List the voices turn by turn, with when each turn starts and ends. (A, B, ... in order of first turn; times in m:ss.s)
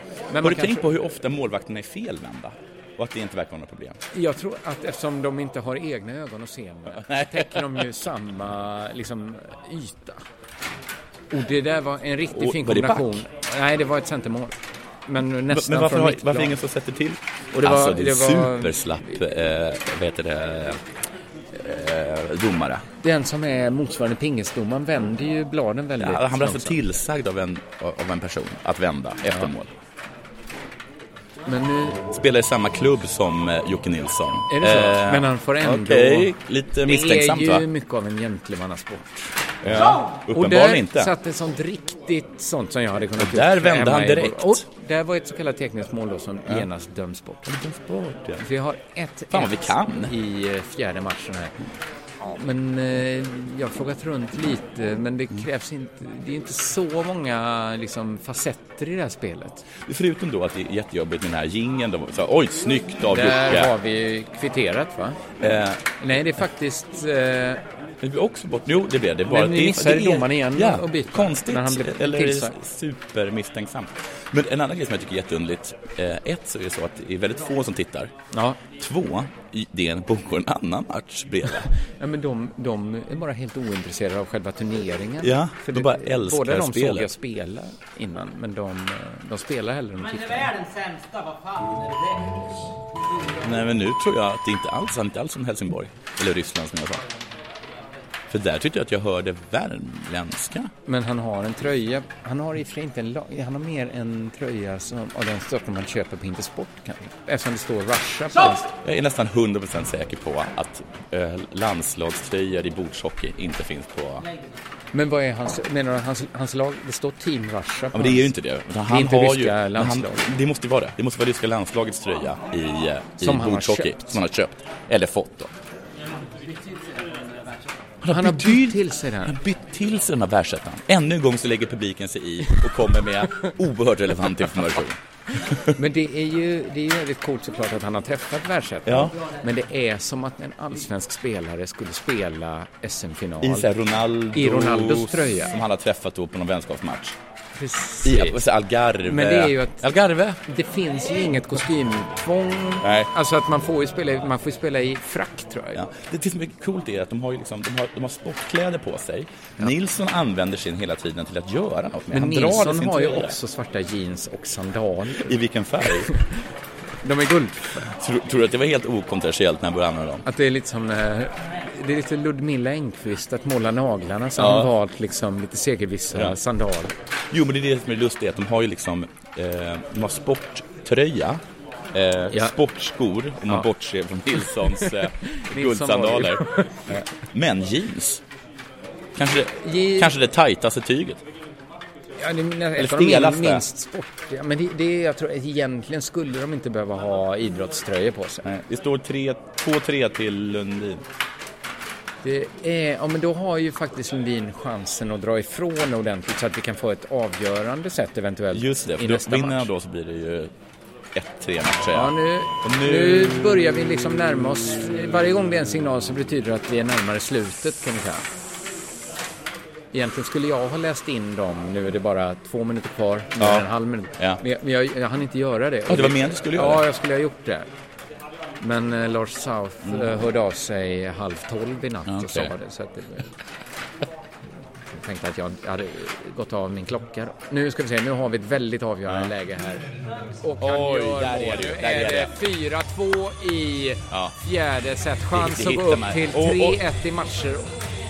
0:00.3-0:00.9 A
0:00.4-0:04.0 B
0:04.1-0:10.2 A
0:06.9-0:07.8 B
0:11.3-0:14.6 A
0:12.3-0:13.2 B
0:15.1-0:16.5 A
0:15.5-0:20.8 B
0:17.6-0:18.8 A
0:21.5-0:22.8 B
0:23.0-0:26.8 A
0:26.0-0:29.7 B
0:31.5-0:32.0 A
0:32.1-0:37.6 B
0:34.5-0:47.4 A
0:39.6-0:41.1 B
0:43.2-0:44.6 B
0:47.4-0:48.4 B
0:48.4-0:51.6 A
0:49.3-0:50.1 B
0:52.2-0:59.6 A
0:59.8-1:03.7 B
1:03.1-1:05.2 A
1:05.4-1:05.9 B
1:06.0-1:07.6 A
1:08.0-1:18.1 B
1:09.3-1:12.6 A
1:18.3-1:18.6 A
1:18.7-1:21.7 B
1:22.0-1:30.7 A
1:25.2-1:27.1 B
1:33.4-1:37.0 B
1:38.3-1:40.7 B
1:40.8-1:48.7 A
1:48.7-1:54.3 B
1:54.9-1:58.3 A
1:57.9-2:05.5 B
1:58.9-2:00.3 A
2:03.2-2:04.2 A
2:08.0-2:15.8 B
2:08.1-2:09.4 A
2:15.7-2:23.7 A
2:18.8-2:19.1 B
2:23.4-2:27.2 B
2:24.3-2:25.5 A
2:27.6-2:28.4 A
2:28.0-2:30.4 B
2:29.0-2:29.9 A
2:30.4-2:35.8 A
2:32.8-2:33.1 B
2:35.7-2:43.4 B
2:42.1-2:45.3 A
2:45.2-2:46.1 B
2:47.0-2:47.7 A
2:47.8-2:50.2 B
2:50.2-2:57.0 A
2:54.4-2:54.7 B
2:57.3-3:08.2 B
3:02.3-3:02.6 A
3:04.4-3:07.0 A
3:09.1-3:11.2 B
3:09.6-3:10.2 A
3:12.2-3:18.4 A
3:12.8-3:13.6 B
3:18.4-3:21.0 B
3:22.2-3:29.7 A
3:28.5-3:30.5 B
3:31.1-3:33.4 B
3:31.9-3:38.3 A
3:39.9-3:47.7 A
3:43.4-3:43.7 B
3:45.9-3:46.8 B
3:48.6-3:53.3 A
3:52.0-3:52.5 B
3:54.9-3:59.8 A
4:00.4-4:07.7 A
4:00.6-4:02.3 B
4:04.1-4:04.3 B
4:05.3-4:06.8 B